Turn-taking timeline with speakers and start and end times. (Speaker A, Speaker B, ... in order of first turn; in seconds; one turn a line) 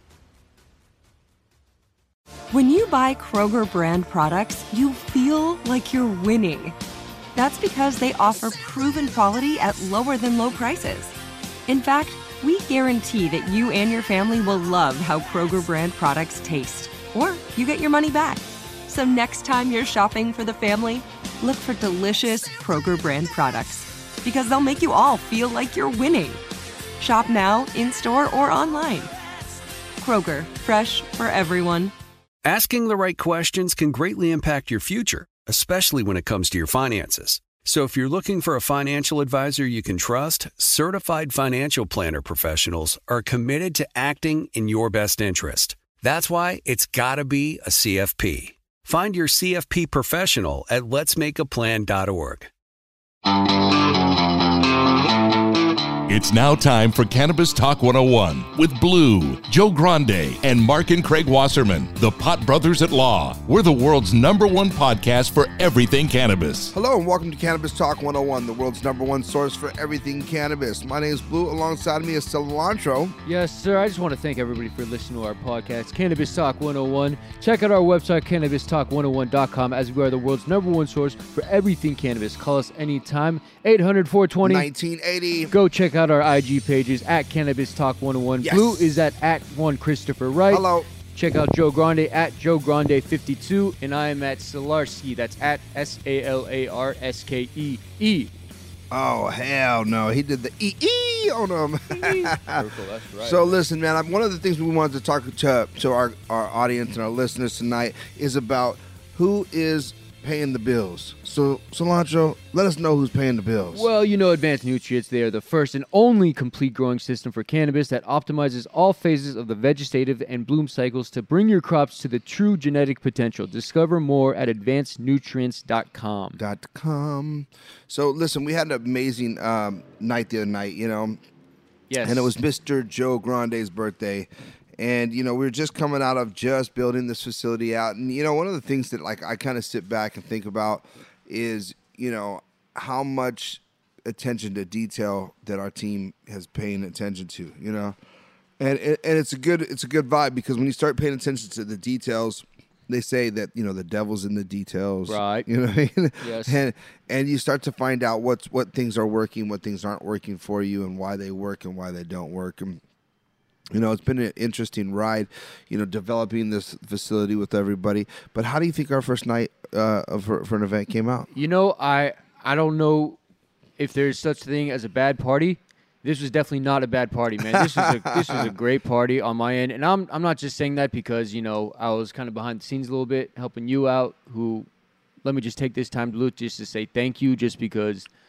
Speaker A: 2.5-6.8
Speaker A: 7.4-11.2
Speaker A: 11.7-26.4
Speaker A: 27.0-29.1
Speaker A: 30.0-31.9
Speaker B: 32.4-52.5
Speaker C: 56.1-66.7
Speaker D: 66.7-73.2
Speaker E: 73.2-84.7
Speaker D: 84.4-85.5
Speaker E: 85.5-98.3
Speaker D: 88.4-89.0
Speaker D: 90.5-90.9
Speaker D: 98.9-102.7
Speaker E: 101.9-103.6
Speaker D: 103.2-113.9
Speaker E: 113.7-126.4
Speaker D: 126.4-131.2
Speaker E: 131.9-132.3
Speaker D: 132.0-148.0
Speaker D: 148.6-162.8
Speaker E: 155.1-155.5
Speaker E: 156.2-156.6
Speaker D: 163.7-171.3
Speaker E: 171.3-173.2
Speaker E: 173.8-184.7
Speaker D: 177.5-178.5
Speaker E: 185.2-188.1